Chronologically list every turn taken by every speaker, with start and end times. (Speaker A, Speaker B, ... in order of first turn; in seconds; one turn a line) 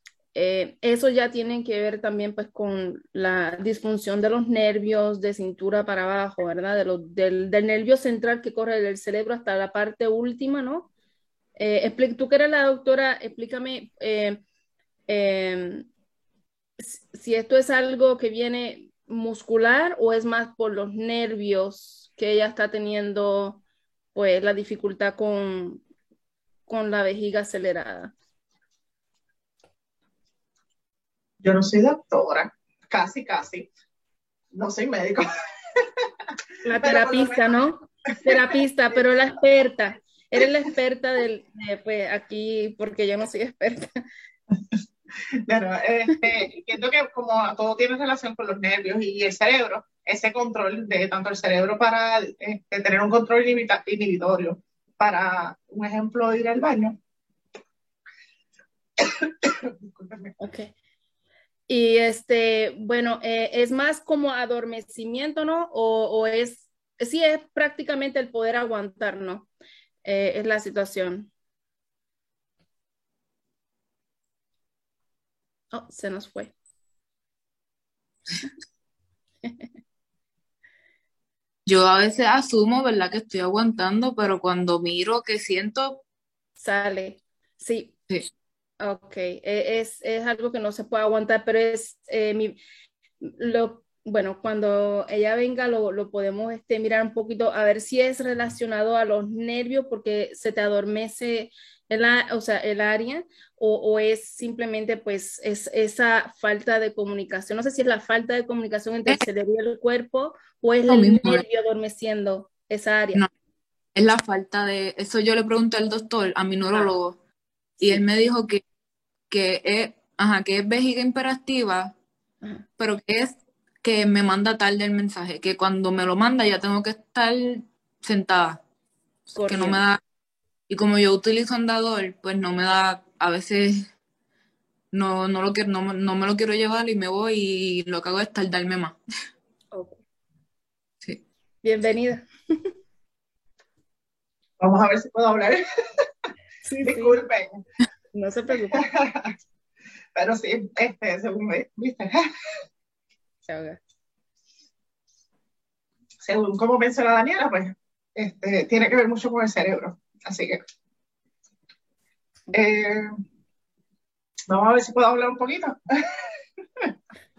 Speaker A: 0.3-10.9
Speaker A: 11.6-14.4
Speaker A: 15.1-15.9
Speaker A: 16.8-23.6
Speaker A: 24.1-25.8
Speaker A: 26.7-28.1
Speaker B: 31.4-33.7
Speaker B: 34.5-36.1
Speaker A: 36.6-44.0
Speaker B: 36.8-37.4
Speaker B: 45.3-57.0
Speaker B: 59.0-60.3
Speaker A: 60.4-60.7
Speaker A: 61.7-69.5
Speaker A: 70.0-71.3
Speaker A: 75.7-76.5
Speaker C: 81.7-86.0
Speaker A: 86.6-87.9
Speaker A: 88.8-92.6
Speaker A: 93.2-113.2
Speaker C: 110.9-111.4
Speaker C: 113.9-117.2
Speaker C: 117.8-118.6
Speaker C: 119.3-121.9
Speaker C: 122.8-128.6
Speaker A: 129.3-129.8
Speaker C: 129.5-130.0
Speaker C: 130.7-133.9
Speaker C: 134.9-139.0
Speaker A: 139.7-140.0
Speaker A: 141.6-142.7
Speaker B: 144.6-146.1
Speaker A: 146.6-147.2
Speaker B: 146.8-147.6
Speaker A: 148.1-148.8
Speaker B: 148.7-149.3
Speaker B: 150.2-152.3
Speaker A: 153.4-153.8
Speaker B: 156.2-160.6
Speaker B: 162.5-163.1
Speaker B: 164.5-166.9